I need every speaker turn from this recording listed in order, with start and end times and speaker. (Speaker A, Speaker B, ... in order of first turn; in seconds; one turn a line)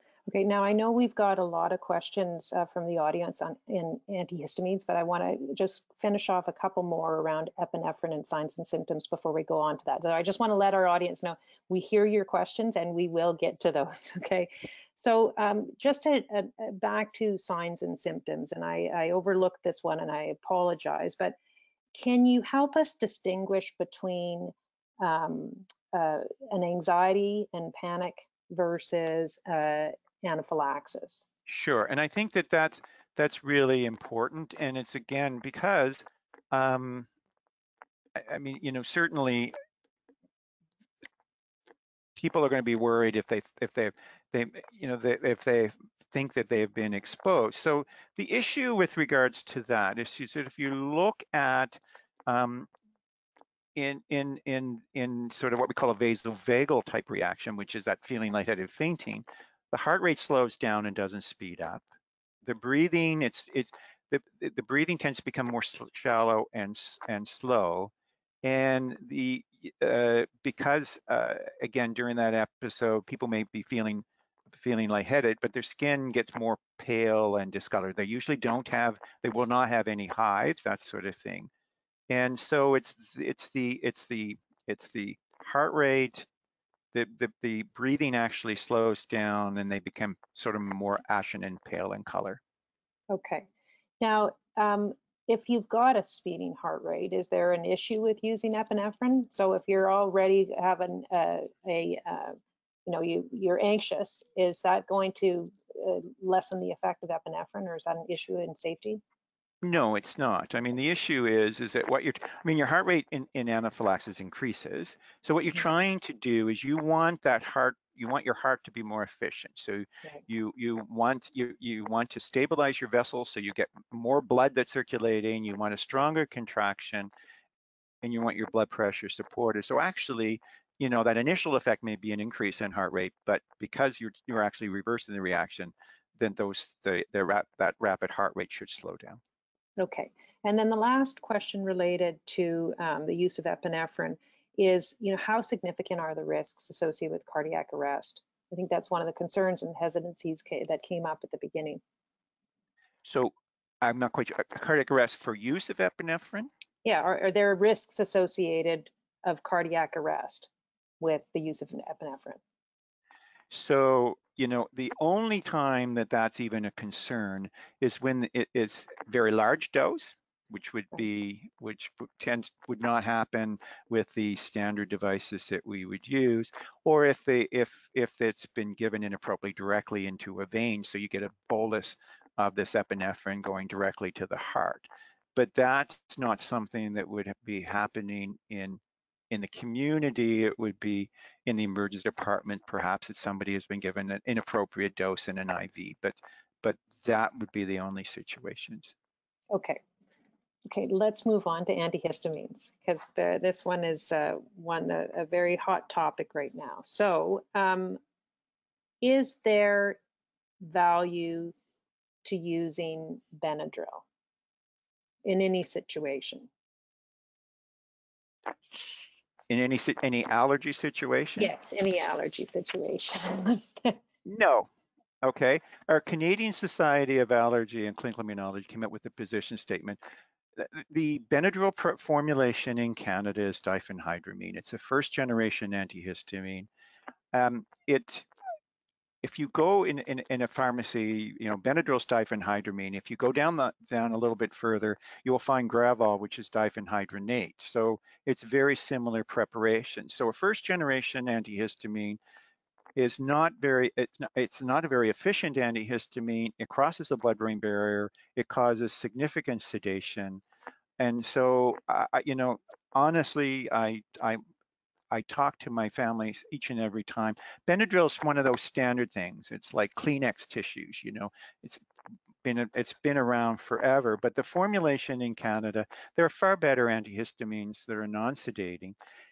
Speaker A: 0.3-21.4
Speaker A: 21.9-31.2
Speaker B: 31.5-37.1
Speaker B: 38.1-39.5
Speaker B: 42.2-52.7
Speaker B: 53.8-61.9
Speaker B: 62.5-67.9
Speaker B: 68.4-81.5
Speaker B: 82.1-86.3
Speaker B: 86.9-92.4
Speaker A: 93.1-93.5
Speaker A: 94.0-109.0
Speaker B: 109.6-127.1
Speaker B: 128.0-139.2
Speaker A: 139.8-151.8
Speaker B: 153.0-156.5
Speaker A: 156.8-160.5
Speaker A: 161.0-162.4
Speaker B: 163.5-198.9
Speaker A: 199.5-199.8
Speaker A: 200.7-208.0
Speaker A: 209.0-210.0
Speaker A: 210.6-211.6
Speaker A: 212.2-214.1
Speaker A: 215.2-216.5
Speaker B: 219.5-221.5
Speaker A: 221.4-224.0
Speaker B: 224.2-224.7
Speaker B: 225.2-230.0
Speaker B: 230.6-236.7
Speaker B: 237.3-238.3
Speaker B: 239.2-252.2
Speaker B: 253.0-260.4
Speaker B: 261.0-264.4
Speaker B: 265.1-271.8
Speaker B: 272.4-278.9